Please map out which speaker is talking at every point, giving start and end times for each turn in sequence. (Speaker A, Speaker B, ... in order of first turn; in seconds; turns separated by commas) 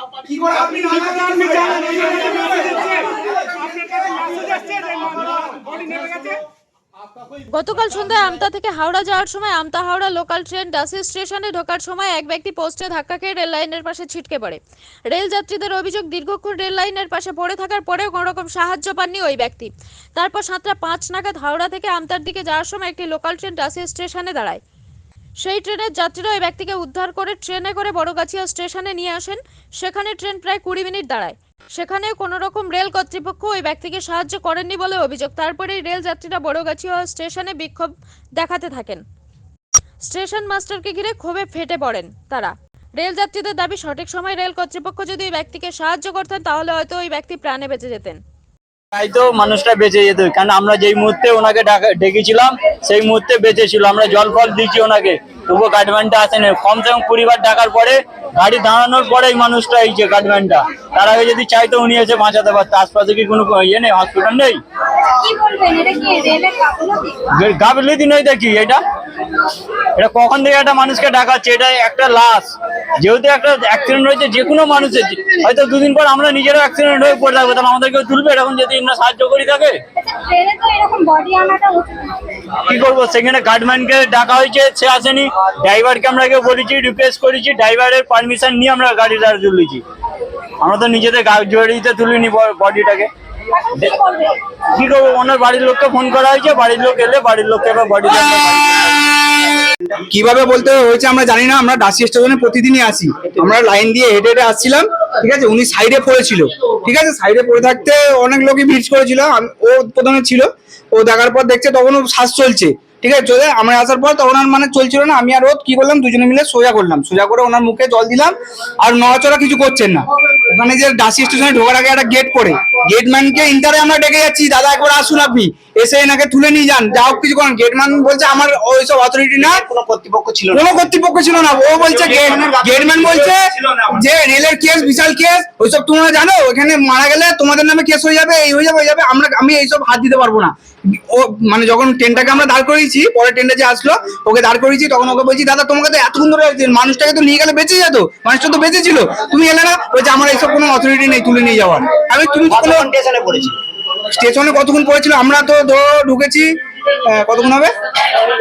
Speaker A: 7.5-24.6, Speaker A: 25.4-39.0, Speaker A: 40.0-48.2, Speaker B: 48.9-64.6, Speaker C: 65.2-67.2, Speaker B: 67.4-68.8, Speaker B: 70.0-79.8, Speaker C: 80.0-82.4, Speaker B: 82.7-89.8, Speaker B: 90.6-93.1, Speaker C: 93.5-94.4, Speaker B: 94.7-99.2, Speaker D: 100.1-129.6, Speaker E: 129.4-130.7, Speaker D: 130.5-133.4, Speaker E: 132.0-133.2, Speaker D: 133.9-152.9, Speaker E: 152.4-153.6, Speaker D: 154.1-156.5, Speaker D: 157.0-157.7